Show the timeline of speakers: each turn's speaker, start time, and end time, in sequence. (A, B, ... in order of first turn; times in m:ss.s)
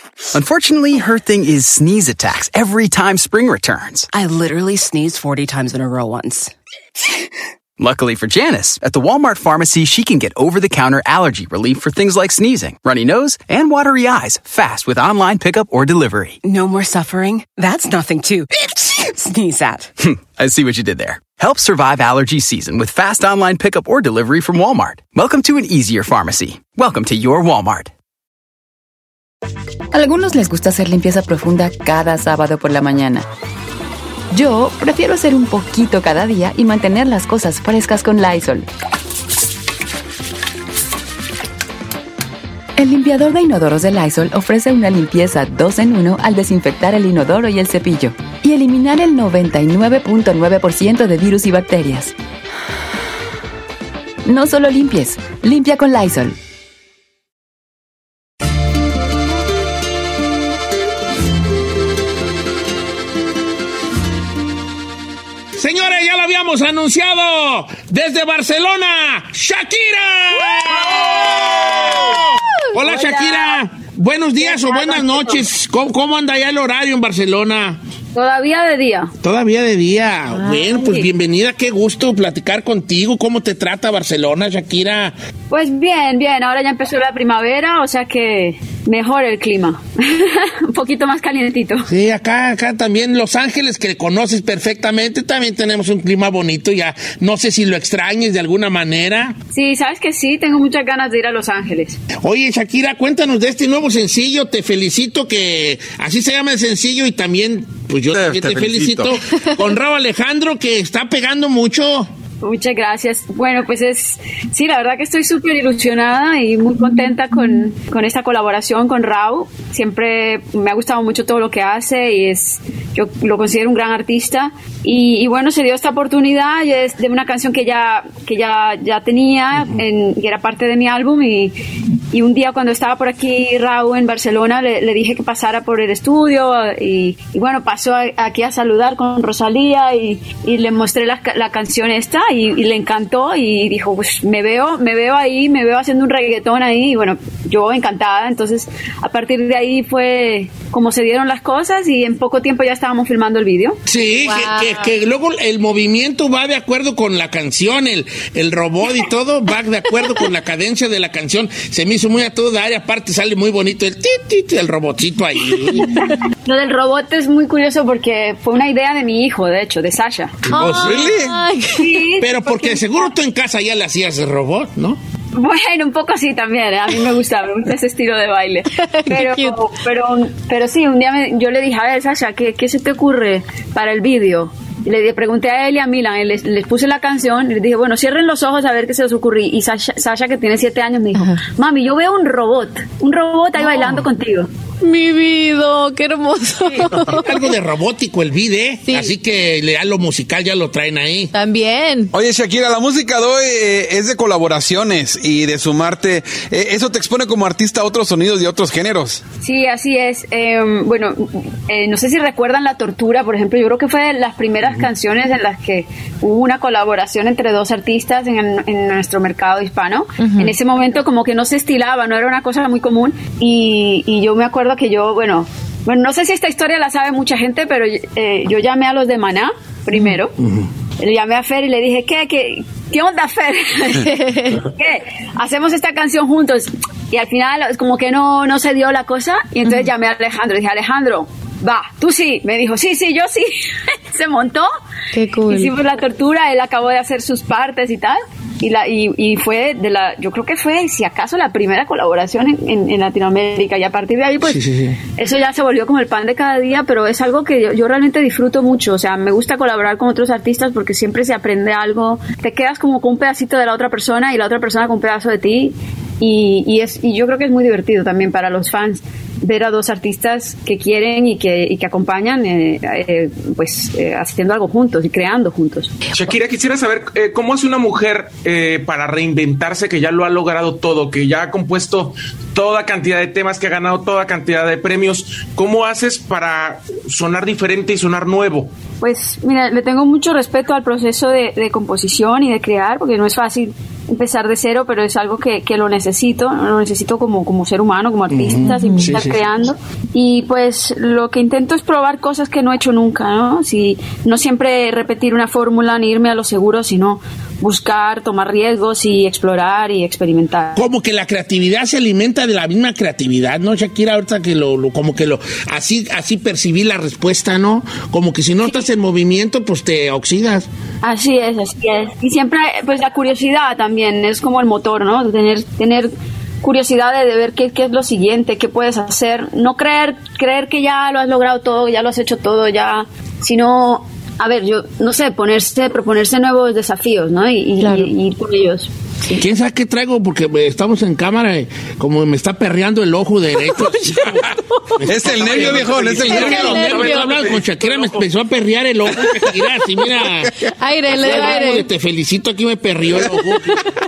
0:00.3-0:04.1 A
0:04.1-0:06.5 B
0:07.8-0:16.4 A
0:16.4-0:19.9 B
0:20.0-0:27.9 A
0:29.9-0:33.3 C
0:34.3-0:38.6 C
0:42.8-0:52.1 C
0:54.2-0:56.4 C
1:05.6-1:17.8 D
1:12.8-1:13.6 E
1:14.4-1:15.4 E
1:18.1-1:19.1 E
1:19.2-1:25.2 D
1:20.3-1:21.1 E
1:25.5-1:31.8 E
1:31.9-1:39.4 D
1:39.5-1:42.0 E
1:42.2-1:52.1 D
1:48.1-1:49.4 F
1:52.4-2:11.6 E
2:12.1-2:33.8 E
2:33.9-2:46.0 D
2:34.2-2:34.9 G
2:46.4-2:50.4 E
2:50.5-2:52.0 G
2:50.5-2:51.1 D
2:50.7-2:51.4 F
2:51.8-2:53.1 E
2:52.2-2:55.0 D
2:55.4-3:14.5 E
2:58.8-2:59.6 G
3:11.1-3:11.4 G
3:14.8-3:17.3 G
3:17.0-3:21.3 D
3:18.8-3:19.1 G
3:21.3-3:22.1 G
3:22.1-3:29.2 F
3:29.4-3:50.3 E
3:40.2-3:40.5 G
3:50.4-3:50.7 D
3:51.0-4:04.7 E
3:53.9-3:54.6 G
4:05.1-4:05.7 G
4:05.5-4:14.6 E
4:14.4-4:15.0 D
4:15.1-4:35.9 E
4:36.1-4:48.7 H
4:49.0-5:10.8 E
4:58.3-4:59.4 D
5:10.7-5:20.7 D
5:21.0-5:26.1 E
5:26.6-5:39.4 E
5:37.8-5:38.1 G
5:39.4-5:50.5 D
5:45.0-5:47.1 F
5:45.4-5:48.2 H
5:46.2-5:47.4 G
5:50.4-5:50.7 F
5:50.8-5:51.9 G
5:51.1-5:53.8 D